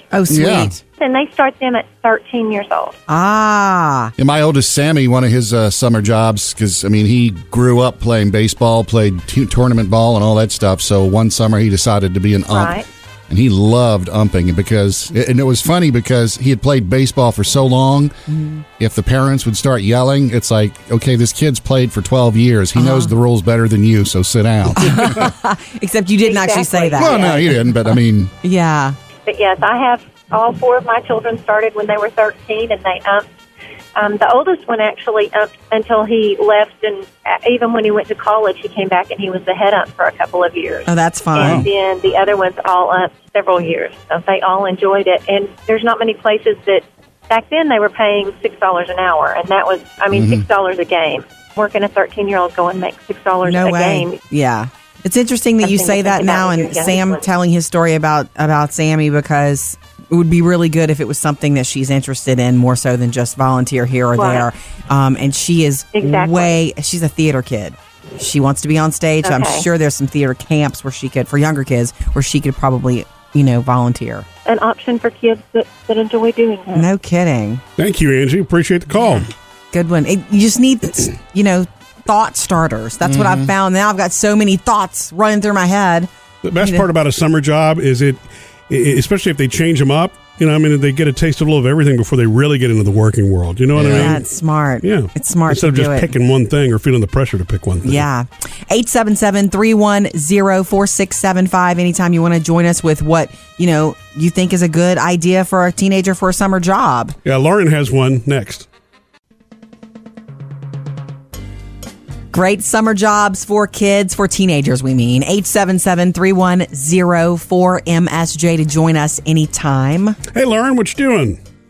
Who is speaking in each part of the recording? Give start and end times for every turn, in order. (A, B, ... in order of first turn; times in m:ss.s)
0:00.1-0:00.8 A
0:00.3-0:00.7 B
0:01.0-0:03.0 C
0:03.1-0:04.1 A
0:04.2-0:12.8 B
0:12.5-0:12.9 C
0:13.3-0:18.1 B
0:18.3-0:18.6 A
0:18.8-0:25.2 B
0:22.8-0:23.1 A
0:24.8-0:27.7 A
0:26.2-0:27.4 C
0:27.0-0:28.3 B
0:28.4-0:29.0 A
0:29.3-0:33.3 C
0:34.0-0:54.2 C
0:40.9-0:41.7 A
0:41.4-0:41.7 D
0:50.1-0:50.4 B
0:53.4-1:14.2 A
0:55.6-0:57.2 C
1:04.2-1:04.5 C
1:05.9-1:06.6 C
1:09.2-1:09.7 C
1:14.5-1:16.9 C
1:16.7-1:17.6 A
1:17.8-1:19.3 D
1:19.7-1:26.9 A
1:23.0-1:23.5 B
1:26.4-1:34.2 D
1:33.8-1:34.2 B
1:33.9-1:36.1 A
1:34.8-1:38.1 D
1:37.8-1:47.2 A
1:47.2-1:48.7 D
1:52.3-2:00.2 A
2:00.3-2:01.4 D